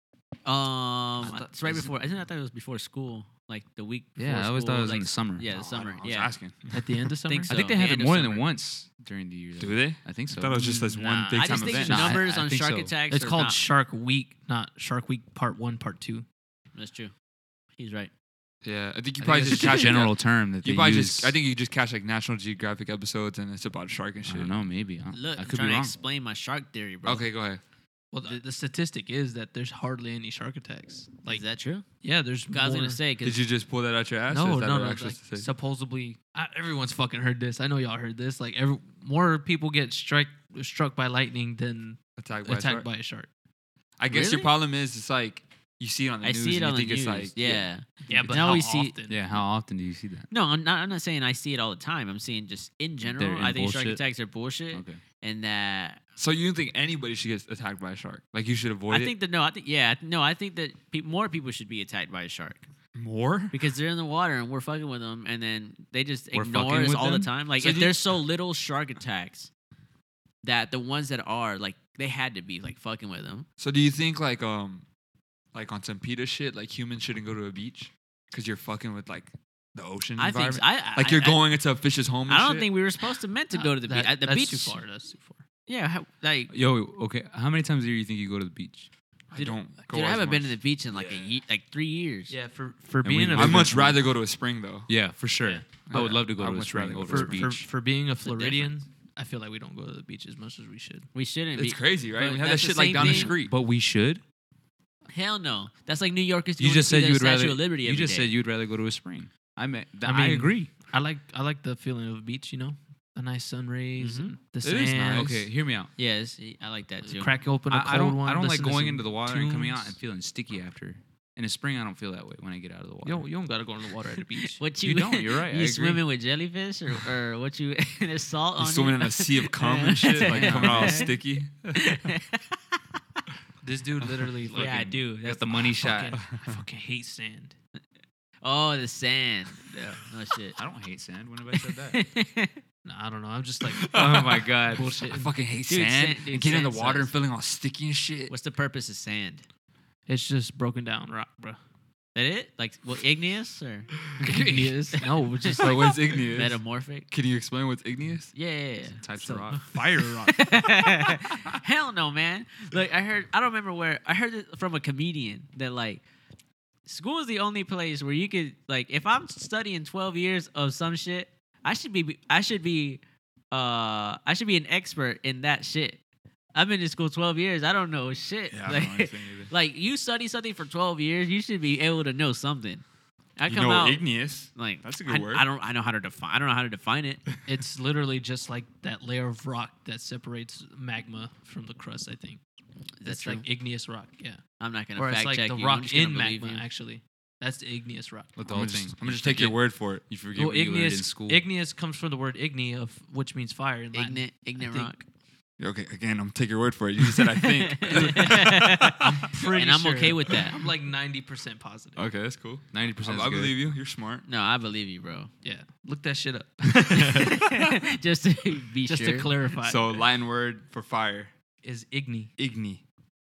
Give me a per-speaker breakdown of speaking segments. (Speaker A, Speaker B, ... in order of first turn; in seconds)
Speaker A: 0.4-6.3, 7.2-8.5, 11.2-13.6, 16.7-17.1, 17.8-18.1, 19.5-19.8, 25.1-27.2, 31.3-31.8, 32.5-33.4, 44.1-44.5, 46.2-48.9, 50.3-56.0, 58.9-62.6, 63.5-69.5, 70.4-73.5, 80.2-81.4, 82.3-84.8, 85.7-86.5, 89.3-92.3, 98.2-98.7, 101.1-103.3, 105.1-108.3, 114.0-114.3, 116.0-117.3, 124.2-131.1, 131.7-132.8, 134.5-135.8, 138.4-140.6, 141.5-142.6, 145.7-147.1, 148.3-149.4, 152.1-153.9, 155.0-157.1, 158.3-159.6, 160.2-166.0, 166.8-176.0, 176.5-182.8, 183.4-187.2, 193.0-193.4, 194.6-196.7, 203.9-205.0, 207.6-210.6, 214.2-215.3, 216.9-219.3
Speaker B: 1.4-1.8, 6.7-7.5, 10.5-11.1, 13.1-16.2, 28.1-31.4, 32.0-33.0, 34.3-43.3, 48.1-49.3, 83.5-85.4, 92.3-93.9, 97.0-101.1, 110.0-115.3, 117.0-119.9, 123.0-124.6, 133.6-135.0, 135.8-137.5, 142.8-145.3, 150.1-151.6, 154.2-156.3, 187.4-192.4, 193.0-194.4, 194.9-198.3, 200.3-204.9, 207.9-212.0, 215.4-217.6, 218.8-220.0, 221.6-222.3
Speaker C: 4.2-5.9, 7.5-12.9, 19.2-21.3, 24.2-25.9, 49.1-50.3, 53.0-54.0, 54.7-55.0, 66.3-67.3, 86.5-88.9, 93.0-94.0, 94.9-97.7, 102.9-104.2, 106.6-110.7, 115.1-115.9, 117.7-123.2, 124.8-126.0, 130.2-131.1, 134.5-136.2, 140.6-142.0, 143.9-145.0, 159.0-159.7, 198.4-201.4, 212.7-213.6
Speaker D: 5.7-6.9, 9.6-12.2, 18.6-24.6, 27.0-27.6, 33.2-35.5, 42.2-42.9, 44.0-48.2, 56.1-59.1, 62.9-63.6, 67.6-68.0, 73.6-74.8, 75.5-82.7, 89.3-91.3, 93.3-94.9, 95.9-97.5, 101.5-103.5, 114.6-115.4, 128.6-132.0, 143.7-148.3, 154.2-154.5, 155.5-158.3, 159.7-160.3, 178.5-179.5, 183.5-185.4, 198.5-200.1, 205.6-209.1, 211.9-214.2, 219.6-221.3, 222.4-222.8